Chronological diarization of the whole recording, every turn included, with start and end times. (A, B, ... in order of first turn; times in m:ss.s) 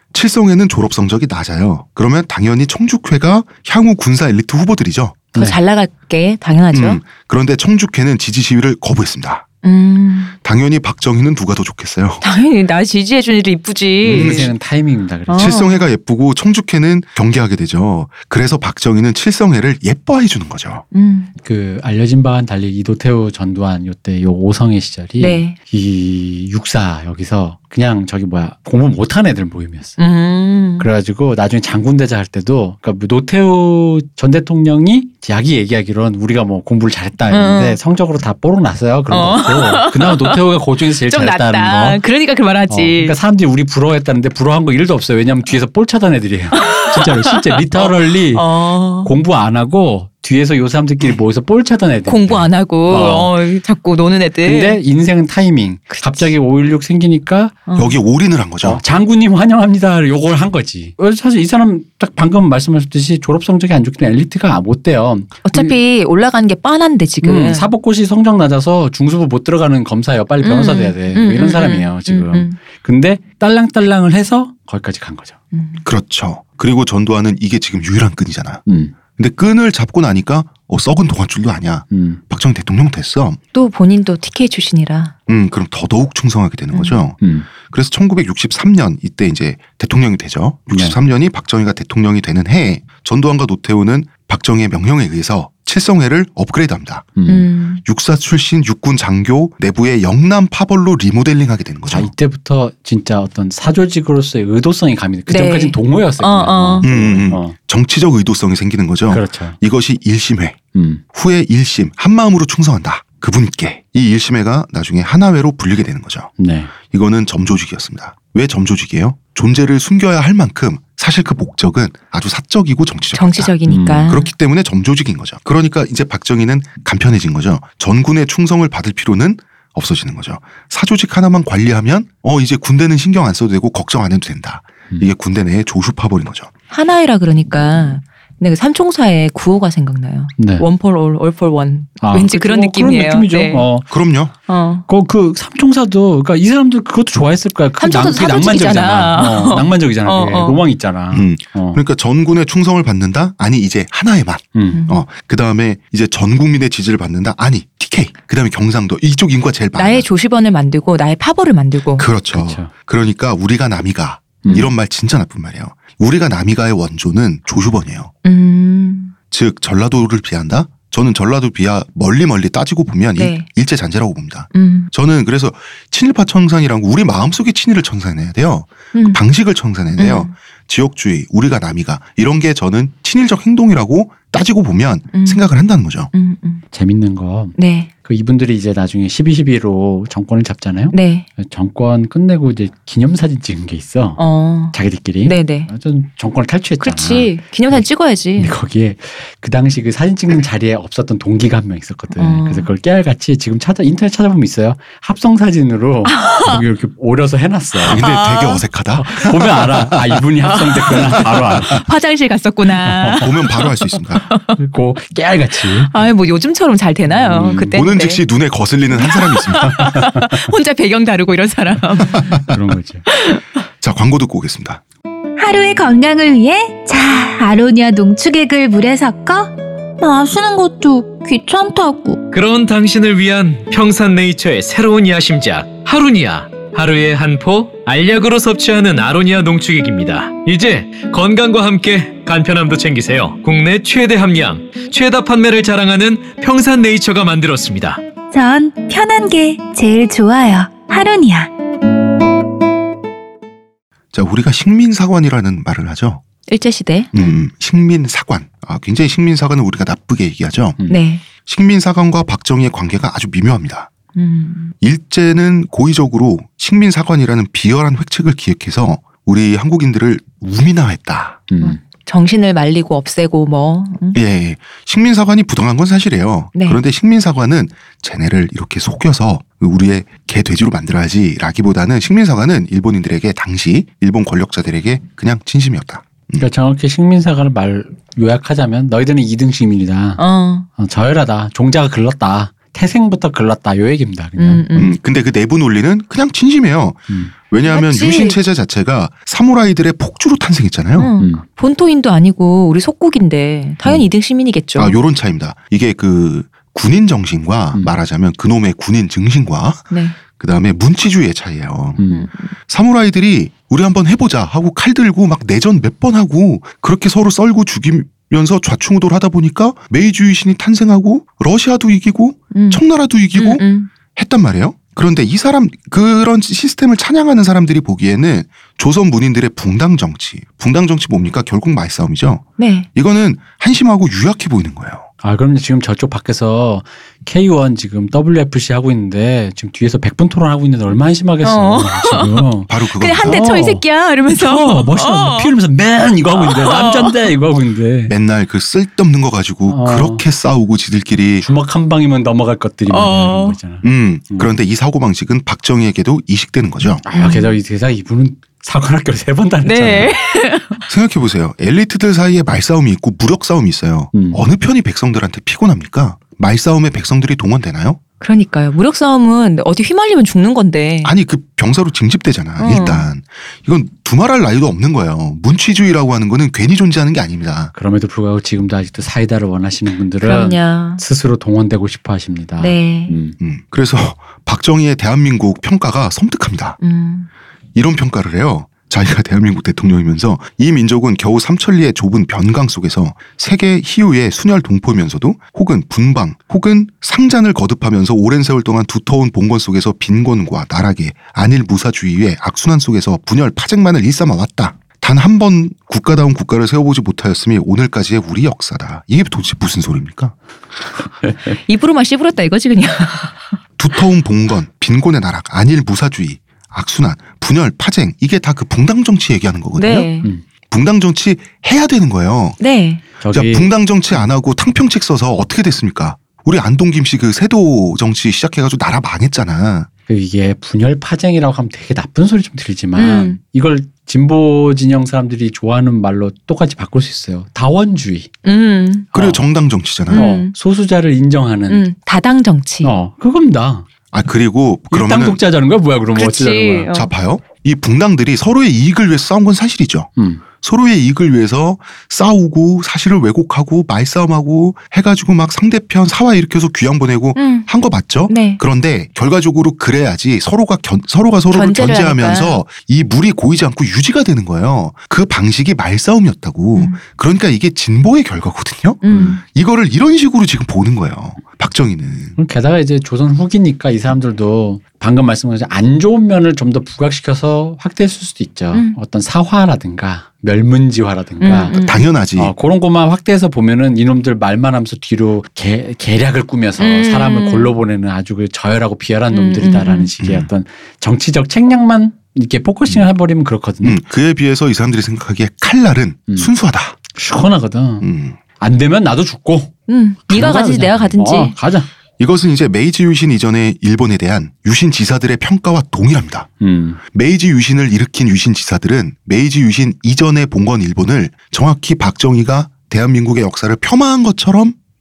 0:00.1-0:05.2 A
0:05.3-0:05.6 B
0:05.3-0:07.0 C
0:06.7-0:09.4 A
0:09.6-0:10.3 C
0:10.4-0:12.2 A
0:12.2-0:14.5 C
0:14.0-0:15.6 B
0:14.0-0:14.5 A
0:15.3-0:15.8 C
0:15.3-0:20.8 A
0:20.9-0:21.3 C
0:21.4-0:30.0 B
0:25.2-0:25.5 C
0:30.0-0:30.9 C
0:30.8-0:42.0 B
0:37.3-0:37.8 C
0:39.1-0:40.4 C
0:40.9-0:43.2 C
0:42.7-0:48.4 B
0:46.5-0:49.1 C
0:49.0-0:53.3 B
0:52.1-0:54.8 C
0:54.4-0:57.6 B
0:55.9-0:56.3 C
0:57.7-0:58.0 C
0:57.8-0:58.8 A
0:58.6-1:05.7 B
1:05.4-1:07.7 C
1:07.2-1:15.4 B
1:10.4-1:12.5 C
1:15.5-1:15.8 C
1:15.8-1:18.6 A
1:18.6-1:18.9 B
1:19.2-1:23.4 A
1:21.9-1:22.2 B
1:23.5-1:25.1 C
1:25.3-1:37.1 A
1:27.2-1:27.5 B
1:30.7-1:31.0 B
1:37.2-1:37.4 B
1:37.3-1:37.8 C
1:37.8-1:42.1 A
1:41.9-1:47.5 B
1:45.3-1:46.9 C
1:46.8-1:50.6 A
1:49.1-1:49.6 B
1:50.7-1:51.0 B
1:51.1-1:56.3 A
1:56.4-1:56.7 B
1:56.8-2:16.5 A
2:03.1-2:04.3 C
2:03.7-2:04.1 B
2:16.7-2:23.7 C
2:20.4-2:20.6 B
2:22.0-2:23.9 B
2:23.9-2:24.3 A
2:24.5-2:24.8 C
2:24.9-2:31.8 B
2:27.8-2:30.6 C
2:31.1-2:40.0 A
2:34.5-2:34.8 B
2:34.7-2:35.0 C
2:39.8-2:42.0 C
2:42.0-2:48.1 A
2:42.3-2:42.7 B
2:48.2-2:49.1 C
2:49.3-3:06.1 A
2:53.2-2:53.5 C
2:54.5-2:54.9 C
2:58.9-2:59.2 C
3:00.0-3:00.3 C
3:05.1-3:05.4 C
3:06.1-3:06.6 C
3:06.7-3:14.2 B
3:07.6-3:07.9 C
3:10.9-3:11.3 C
3:14.2-3:15.7 C
3:14.7-3:17.8 B
3:16.8-3:18.5 C
3:18.4-3:28.0 B
3:22.2-3:22.7 C
3:26.1-3:26.6 C
3:27.8-3:29.9 A
3:27.9-3:28.6 C
3:29.0-3:31.9 B
3:30.5-3:34.6 C
3:32.8-3:33.3 B
3:33.2-3:34.2 A
3:34.6-3:35.9 B
3:35.9-3:38.2 C
3:37.1-3:37.8 B
3:37.7-3:39.9 A
3:38.9-3:42.4 C
3:39.7-3:40.3 B
3:42.1-3:43.0 B
3:43.1-3:43.4 C
3:43.8-3:44.8 A
3:45.4-3:52.2 D
3:52.3-4:08.0 E
4:08.3-4:11.5 D
4:14.1-4:16.2 A
4:16.5-4:17.3 C
4:17.1-4:20.8 A
4:20.9-4:21.2 C
4:21.4-4:23.9 A
4:24.1-4:24.7 C
4:24.8-4:31.4 A
4:31.5-4:31.8 B
4:31.6-4:34.2 C
4:34.1-4:46.4 A
4:36.5-4:36.8 C
4:46.4-4:50.2 B
4:50.2-4:50.7 C
4:50.8-4:54.8 B
4:54.4-4:54.9 C
4:54.7-5:01.1 A
4:57.6-4:58.4 C
5:01.0-5:05.0 C
5:04.8-5:12.0 A
5:09.9-5:10.2 C
5:12.0-5:12.3 B
5:12.1-5:12.5 C
5:12.7-5:23.6 A
5:22.5-5:22.8 C
5:23.3-5:23.9 C
5:24.1-5:35.0 A
5:32.6-5:32.9 C
5:35.2-5:42.7 B
5:41.4-5:45.5 C
5:42.7-5:43.4 A
5:43.2-5:48.1 B
5:46.4-5:47.1 C
5:48.1-5:51.4 A
5:49.7-5:50.2 B
5:51.4-5:54.5 B
5:52.9-5:53.6 C
5:53.8-5:57.0 A
5:57.0-6:00.1 B
5:57.2-5:57.5 C
5:59.6-6:00.8 C
6:00.9-6:08.0 A
6:04.1-6:04.4 B
6:08.2-6:11.1 C
6:11.0-6:17.7 A
6:12.6-6:13.0 C
6:17.7-6:23.4 B
6:20.2-6:21.0 C
6:22.6-6:23.1 C
6:23.4-6:26.8 A
6:26.8-6:27.3 C
6:27.7-6:50.3 A
6:51.5-6:53.4 C
6:53.8-7:00.1 A
6:59.8-7:00.3 C
7:00.7-7:02.6 A
7:02.6-7:03.0 C
7:03.2-7:03.7 B
7:03.3-7:09.9 A
7:10.1-7:18.3 B
7:13.0-7:13.4 C
7:18.4-7:19.1 C
7:19.1-7:19.4 B
7:19.1-7:20.3 A
7:20.1-7:20.5 C
7:20.1-7:21.8 B
7:21.7-7:22.9 C
7:22.8-7:23.8 B
7:24.1-7:25.4 A
7:24.9-7:26.9 B
7:26.1-7:27.1 C
7:26.9-7:52.4 A
7:30.2-7:30.4 B
7:37.4-7:37.7 C
7:38.3-7:38.6 C
7:41.5-7:42.6 C
7:49.0-7:49.4 C
7:49.1-7:49.4 B
7:52.4-8:01.8 B
8:01.4-8:02.0 C
8:01.7-8:02.5 A
8:02.4-8:14.0 B
8:06.8-8:07.7 C
8:09.3-8:10.1 C
8:10.2-8:10.5 A
8:13.8-8:17.0 A
8:17.1-8:19.7 B
8:18.0-8:18.4 A
8:19.9-8:21.6 C
8:20.3-8:21.9 B
8:22.2-8:26.5 A
8:26.6-8:27.0 B
8:27.1-8:34.8 A